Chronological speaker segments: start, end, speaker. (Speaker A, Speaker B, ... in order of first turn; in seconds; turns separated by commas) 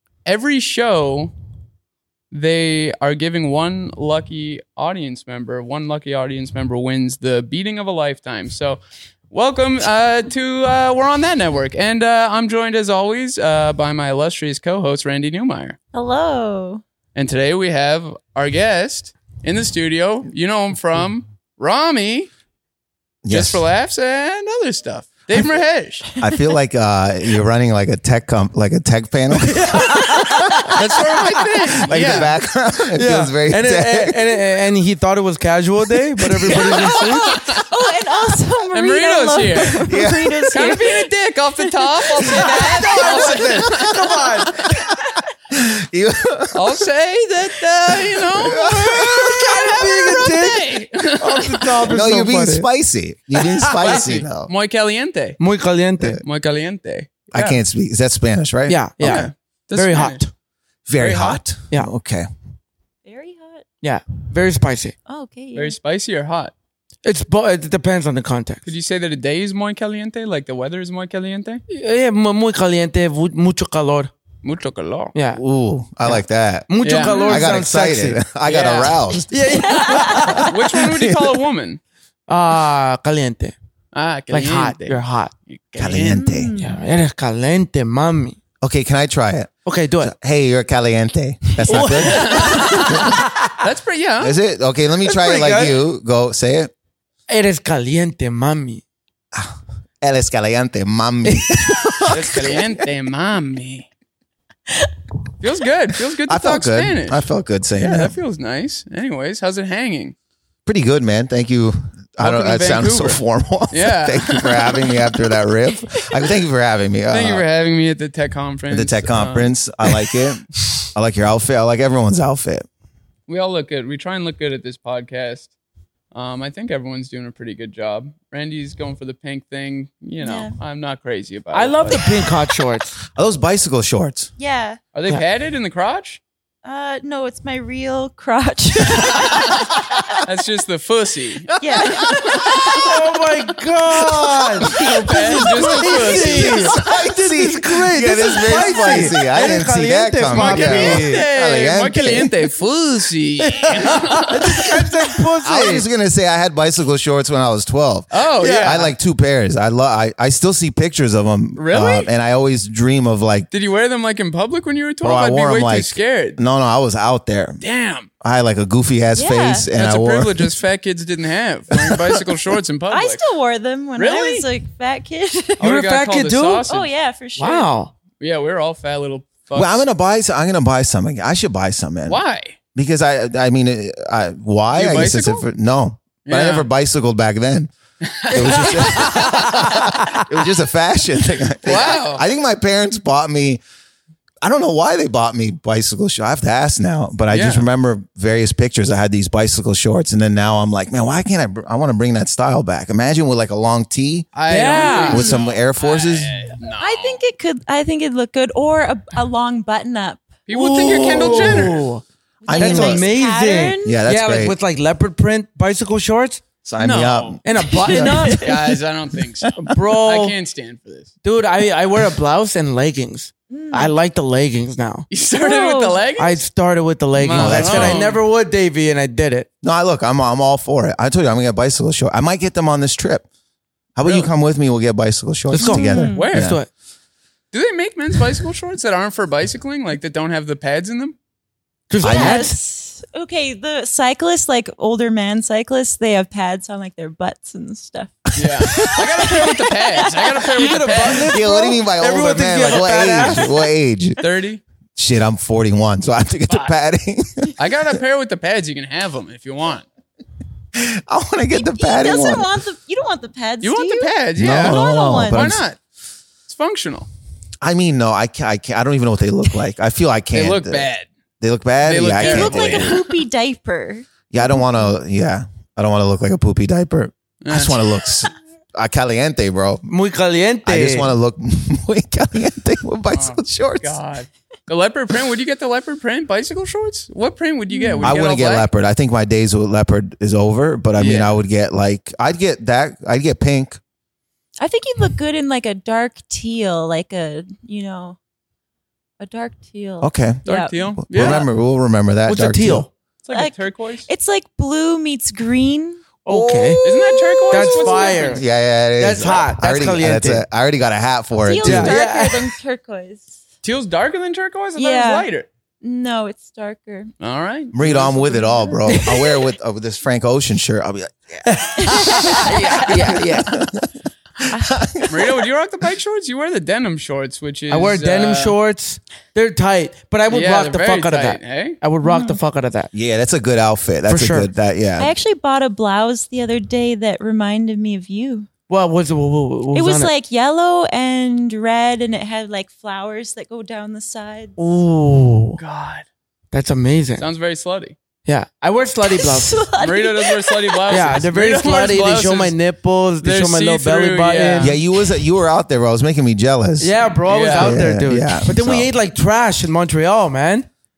Speaker A: 0.2-1.3, Speaker A: 2.3-8.8, Speaker A: 9.3-15.8, Speaker B: 15.9-16.8, Speaker A: 17.1-22.3, Speaker C: 23.2-23.6, Speaker A: 23.3-26.1, Speaker C: 26.2-31.2, Speaker D: 29.4-30.2, Speaker B: 30.0-30.7, Speaker A: 30.7-32.3, Speaker C: 31.8-34.2, Speaker D: 33.0-37.3, Speaker A: 36.4-37.6, Speaker B: 37.2-41.0, Speaker A: 38.7-39.8, Speaker C: 39.8-40.7, Speaker A: 40.5-44.2, Speaker B: 42.2-42.5, Speaker D: 42.5-44.5, Speaker C: 42.5-43.8, Speaker C: 44.5-45.0, Speaker C: 45.5-46.8, Speaker A: 46.5-51.9, Speaker C: 47.9-49.5, Speaker D: 49.2-52.7, Speaker C: 51.8-54.5, Speaker D: 53.4-54.1, Speaker A: 53.8-55.4, Speaker D: 55.4-56.2, Speaker A: 56.2-57.6, Speaker C: 57.3-59.2, Speaker D: 58.7-60.3, Speaker A: 59.0-60.2, Speaker C: 60.9-62.3, Speaker A: 61.0-61.4, Speaker B: 63.0-63.6, Speaker D: 63.8-64.9, Speaker B: 65.1-65.8, Speaker A: 65.5-66.5, Speaker D: 67.0-68.6, Speaker A: 68.7-71.6, Speaker D: 71.7-74.1, Speaker A: 74.4-75.1, Speaker D: 75.1-75.4, Speaker C: 75.3-79.6, Speaker D: 76.0-78.2, Speaker A: 76.8-77.2, Speaker B: 77.0-77.5, Speaker A: 78.5-79.2, Speaker D: 79.3-80.5, Speaker B: 79.6-80.5, Speaker A: 80.1-81.8, Speaker C: 80.8-81.3, Speaker D: 82.3-83.5, Speaker A: 83.9-86.2, Speaker D: 84.3-85.3, Speaker C: 85.8-86.5, Speaker B: 86.1-86.8, Speaker D: 86.6-88.4, Speaker C: 88.6-93.2, Speaker D: 89.7-90.1, Speaker D: 91.6-93.6, Speaker A: 91.8-94.4, Speaker C: 94.2-96.7, Speaker D: 95.0-95.8, Speaker D: 97.3-98.8, Speaker C: 99.3-102.8, Speaker A: 102.1-103.9, Speaker D: 102.1-102.4, Speaker A: 105.4-110.1, Speaker C: 106.2-108.2, Speaker C: 110.7-117.4, Speaker A: 112.2-113.2, Speaker A: 113.7-114.9, Speaker A: 117.1-119.5, Speaker C: 118.7-122.7, Speaker A: 123.3-125.5, Speaker A: 126.1-132.2, Speaker B: 130.2-130.5, Speaker D: 131.5-133.0, Speaker C: 133.1-134.3, Speaker B: 134.4-134.8, Speaker A: 134.9-136.2, Speaker B: 136.6-139.6, Speaker A: 140.2-141.6, Speaker C: 141.6-142.8, Speaker B: 141.6-142.8, Speaker D: 142.7-151.2, Speaker C: 144.0-152.3, Speaker A: 144.7-146.8, Speaker A: 150.3-154.7, Speaker D: 153.4-155.8, Speaker C: 155.4-163.5, Speaker A: 158.1-158.9, Speaker D: 158.4-158.8, Speaker A: 161.6-162.1, Speaker A: 163.5-166.4, Speaker C: 165.0-167.6, Speaker A: 167.6-168.1, Speaker C: 168.2-170.5, Speaker B: 169.1-169.7, Speaker A: 169.7-173.2, Speaker C: 171.7-172.4, Speaker B: 172.9-175.6, Speaker A: 174.0-174.4, Speaker A: 175.6-176.9, Speaker D: 175.6-176.7, Speaker B: 176.7-177.7, Speaker D: 177.4-177.9, Speaker A: 178.2-179.8, Speaker C: 179.5-182.2, Speaker A: 182.1-182.6, Speaker C: 182.7-187.7, Speaker A: 184.7-185.4, Speaker A: 186.2-186.7, Speaker A: 188.0-190.0, Speaker C: 188.2-193.6, Speaker D: 188.3-190.2, Speaker A: 191.6-192.2, Speaker C: 194.4-206.4, Speaker A: 197.3-197.6, Speaker A: 204.3-207.2, Speaker D: 204.5-205.3, Speaker B: 204.9-205.2, Speaker B: 206.7-210.3, Speaker A: 210.5-211.8, Speaker D: 210.5-212.0, Speaker C: 211.2-211.7, Speaker B: 212.4-214.0, Speaker C: 212.4-213.1, Speaker D: 212.5-216.4, Speaker C: 213.8-214.6, Speaker C: 216.6-218.5, Speaker A: 216.8-221.1, Speaker D: 217.4-218.3, Speaker B: 217.6-218.7, Speaker D: 219.6-220.3, Speaker D: 221.2-225.1, Speaker B: 223.5-223.9, Speaker A: 225.1-226.4, Speaker B: 225.4-226.0, Speaker D: 226.2-229.5, Speaker A: 227.1-228.2, Speaker C: 227.3-228.0, Speaker C: 229.6-233.2, Speaker C: 233.9-236.6, Speaker A: 234.0-234.3, Speaker D: 235.5-236.7, Speaker B: 235.6-236.3, Speaker A: 236.1-236.6, Speaker A: 237.5-241.1, Speaker D: 241.9-242.5, Speaker C: 242.0-242.4, Speaker B: 242.0-251.1, Speaker A: 248.3-251.3, Speaker C: 248.4-248.9, Speaker D: 250.5-253.5, Speaker C: 251.3-254.2, Speaker A: 254.2-254.6, Speaker C: 254.9-257.6, Speaker A: 257.6-259.8, Speaker C: 260.7-262.5, Speaker B: 261.5-265.4, Speaker A: 263.6-265.8, Speaker C: 264.4-265.6, Speaker A: 266.5-267.1, Speaker C: 267.6-270.9, Speaker A: 270.3-271.1, Speaker C: 271.4-273.0, Speaker A: 271.8-273.0, Speaker B: 272.2-274.1, Speaker C: 274.3-279.9, Speaker A: 277.4-277.8, Speaker D: 279.9-281.1, Speaker C: 280.6-284.0, Speaker A: 283.1-288.7, Speaker B: 287.7-288.1, Speaker C: 288.0-293.8, Speaker A: 290.9-291.3, Speaker B: 294.6-298.2, Speaker B: 299.2-301.4, Speaker C: 300.0-300.4, Speaker A: 300.4-301.4, Speaker C: 301.0-302.9, Speaker D: 302.3-302.9, Speaker A: 303.2-304.1, Speaker B: 303.3-308.4, Speaker D: 306.2-306.8, Speaker A: 306.8-308.4, Speaker D: 307.5-310.4, Speaker C: 308.4-312.0, Speaker B: 311.4-313.4, Speaker D: 311.6-312.5, Speaker A: 313.6-315.5, Speaker B: 314.8-315.3, Speaker B: 315.8-317.1, Speaker A: 317.2-318.4, Speaker C: 317.7-323.9, Speaker B: 318.4-318.8, Speaker D: 318.9-319.2, Speaker D: 321.4-323.5, Speaker B: 321.8-323.2, Speaker A: 322.4-323.2, Speaker C: 324.4-325.4, Speaker B: 324.5-324.8, Speaker A: 325.1-328.6, Speaker D: 327.7-332.9, Speaker A: 330.3-331.8, Speaker B: 332.0-332.4, Speaker C: 332.9-335.1, Speaker D: 334.1-334.5, Speaker B: 335.0-338.5, Speaker D: 338.7-340.1, Speaker B: 339.7-344.5, Speaker D: 344.6-345.6, Speaker A: 345.6-346.1, Speaker D: 346.5-347.2, Speaker A: 347.2-347.9, Speaker D: 348.2-349.6, Speaker B: 349.0-351.0, Speaker A: 349.8-352.6, Speaker D: 350.9-354.7, Speaker A: 353.2-354.8, Speaker C: 354.6-356.9, Speaker D: 356.8-360.7, Speaker A: 357.2-357.9, Speaker C: 357.5-358.9